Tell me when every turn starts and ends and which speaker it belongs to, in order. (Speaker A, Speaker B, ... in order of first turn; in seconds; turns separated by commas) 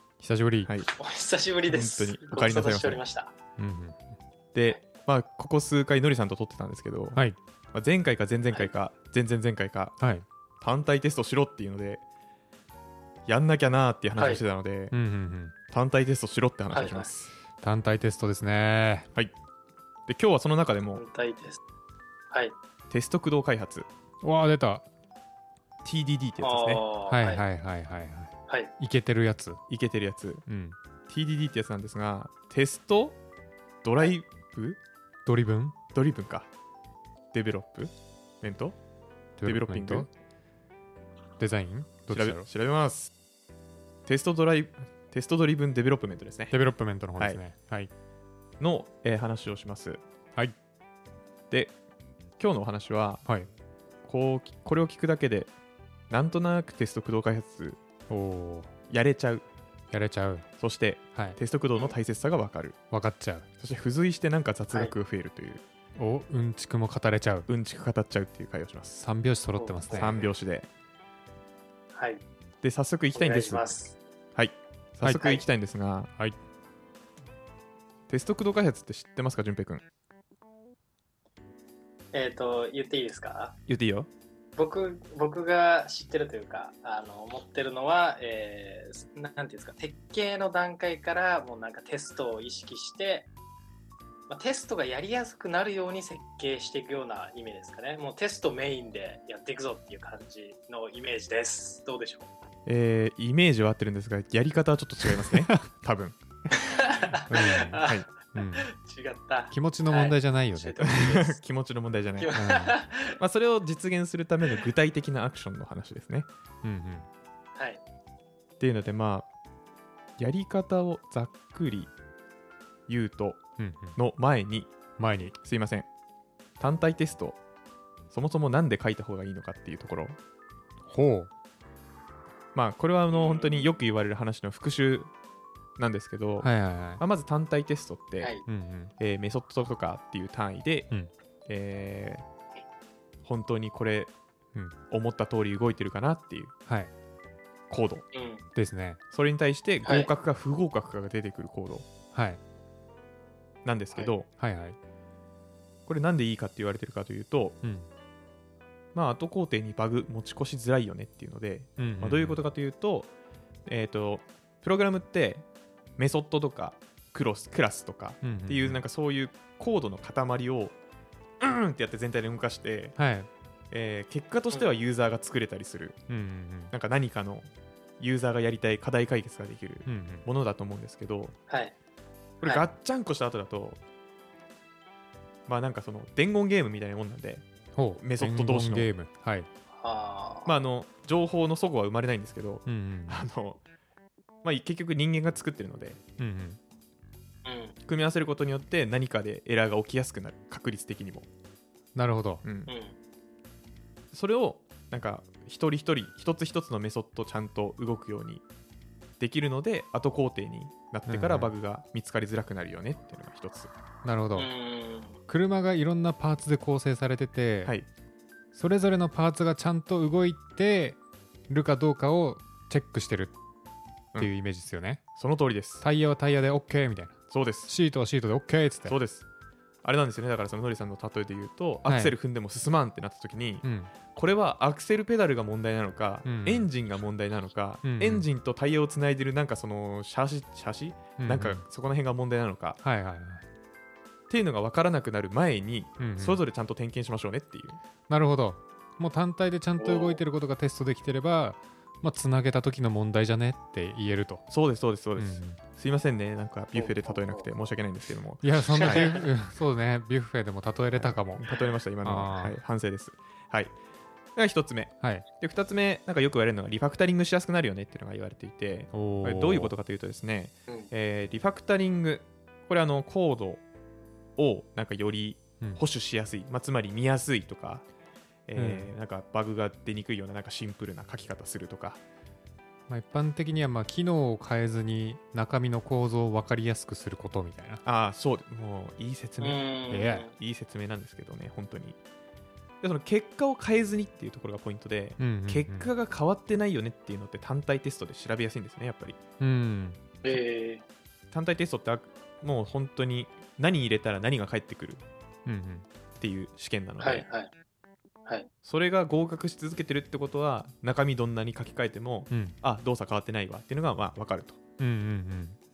Speaker A: 0.2-0.7, Speaker B: 0.9-3.3, Speaker C: 1.7-3.0, Speaker A: 3.6-4.0, Speaker C: 4.5-7.2, Speaker C: 7.7-10.0, Speaker A: 10.0-10.2, Speaker C: 10.6-12.0, Speaker C: 13.3-14.9, Speaker B: 14.2-14.4, Speaker A: 14.9-15.5, Speaker C: 15.7-17.3, Speaker B: 16.7-17.1, Speaker A: 17.6-19.1, Speaker C: 20.1-21.0, Speaker B: 20.9-21.6, Speaker C: 22.9-23.9, Speaker A: 24.2-24.9, Speaker C: 25.8-26.8, Speaker B: 26.4-27.4, Speaker A: 27.1-29.6, Speaker C: 29.7-30.4, Speaker A: 30.5-30.8, Speaker C: 31.1-33.2, Speaker C: 33.8-34.8, Speaker A: 35.3-35.8, Speaker C: 35.9-36.5, Speaker C: 37.3-38.8, Speaker A: 39.4-40.1, Speaker C: 39.4-40.1, Speaker A: 41.4-42.5, Speaker C: 42.1-43.1, Speaker C: 44.1-46.6, Speaker A: 46.5-47.9, Speaker C: 48.6-50.0, Speaker C: 51.5-51.8, Speaker C: 52.4-53.2, Speaker C: 54.0-55.5, Speaker C: 56.1-57.8, Speaker A: 58.1-58.7, Speaker C: 58.9-59.5, Speaker A: 59.9-60.5, Speaker C: 60.6-62.8, Speaker A: 62.9-63.5, Speaker C: 63.6-65.6, Speaker A: 66.0-67.5, Speaker C: 67.5-69.0, Speaker A: 69.0-70.2, Speaker B: 69.5-70.3, Speaker C: 69.9-70.7, Speaker B: 72.0-72.2, Speaker C: 72.6-73.7, Speaker B: 73.1-74.0, Speaker C: 74.3-76.1, Speaker B: 75.2-75.5, Speaker C: 78.1-79.8, Speaker B: 82.1-83.6, Speaker C: 83.7-84.1, Speaker B: 84.6-93.3, Speaker B: 94.3-102.3, Speaker C: 102.7-106.2, Speaker A: 105.0-105.4, Speaker B: 106.6-111.4, Speaker A: 107.3-108.7, Speaker C: 107.8-108.1, Speaker A: 109.5-111.2, Speaker C: 110.8-112.4, Speaker B: 112.2-113.2, Speaker A: 112.3-112.8, Speaker C: 113.1-116.3, Speaker A: 116.6-117.1, Speaker B: 117.6-117.8, Speaker C: 118.6-119.3, Speaker C: 120.2-121.9, Speaker C: 122.9-123.4, Speaker A: 123.6-124.0, Speaker C: 124.0-124.7, Speaker A: 125.0-125.4, Speaker C: 125.4-125.9, Speaker C: 126.6-127.4, Speaker C: 128.1-130.2, Speaker A: 130.9-131.3, Speaker C: 132.5-135.1, Speaker B: 133.1-133.7, Speaker C: 135.8-138.4, Speaker A: 136.4-137.0, Speaker A: 138.5-138.9, Speaker C: 139.0-140.9, Speaker C: 141.5-142.2, Speaker C: 143.2-144.1, Speaker C: 144.9-146.5, Speaker A: 146.7-146.9, Speaker C: 147.7-148.1, Speaker B: 148.1-148.4, Speaker A: 148.6-149.0, Speaker C: 149.1-151.9, Speaker A: 152.1-152.4, Speaker C: 153.7-154.3, Speaker A: 154.4-154.8, Speaker C: 155.9-157.6, Speaker A: 157.6-157.9, Speaker C: 158.9-163.1, Speaker A: 161.8-162.4, Speaker C: 163.7-165.5, Speaker C: 166.0-170.8, Speaker A: 168.2-168.8, Speaker C: 171.4-173.0, Speaker A: 173.0-173.3, Speaker C: 173.7-176.0, Speaker A: 176.1-176.7, Speaker C: 176.7-177.5, Speaker C: 178.0-181.4, Speaker A: 179.9-180.3, Speaker B: 181.5-181.8, Speaker C: 182.4-183.8, Speaker C: 185.5-187.5, Speaker A: 187.8-189.5, Speaker C: 188.0-188.9, Speaker B: 189.8-190.5, Speaker C: 190.5-193.6, Speaker A: 192.7-193.2, Speaker C: 194.4-196.0, Speaker A: 196.2-196.6, Speaker B: 197.4-197.8, Speaker C: 197.9-201.3, Speaker A: 201.9-202.4, Speaker C: 202.4-202.7, Speaker B: 202.7-203.0, Speaker C: 204.1-208.4, Speaker C: 209.2-213.7, Speaker A: 211.1-211.5, Speaker A: 214.0-214.5, Speaker B: 214.3-215.2, Speaker A: 215.3-217.8, Speaker A: 218.6-221.0, Speaker A: 221.5-223.3, Speaker A: 224.2-225.0, Speaker C: 225.2-225.8, Speaker A: 225.8-229.0, Speaker C: 227.3-227.7, Speaker C: 228.9-229.2, Speaker C: 229.8-242.8, Speaker A: 231.9-232.2, Speaker A: 233.6-233.9, Speaker A: 236.2-236.7, Speaker A: 237.8-238.3, Speaker A: 241.2-241.6, Speaker A: 242.8-243.4, Speaker C: 244.3-247.8, Speaker A: 246.0-246.4, Speaker A: 248.1-254.5, Speaker B: 249.8-250.2, Speaker C: 254.5-259.2, Speaker A: 255.2-255.6, Speaker B: 256.8-257.5, Speaker A: 258.4-262.6, Speaker B: 258.8-259.2, Speaker C: 260.9-263.7, Speaker C: 264.4-273.6, Speaker A: 268.9-269.7, Speaker C: 274.4-277.9, Speaker C: 278.5-282.0, Speaker A: 278.6-278.9, Speaker A: 282.9-287.8, Speaker C: 287.9-289.6, Speaker B: 289.4-290.3, Speaker A: 289.9-290.3, Speaker C: 290.3-292.0, Speaker C: 292.8-299.2, Speaker A: 295.2-295.9, Speaker A: 299.4-300.0, Speaker B: 300.2-300.8, Speaker C: 301.3-305.0, Speaker A: 305.5-305.9, Speaker C: 306.2-307.3, Speaker B: 307.0-307.5, Speaker C: 308.6-314.6, Speaker A: 312.3-312.6, Speaker A: 314.8-315.6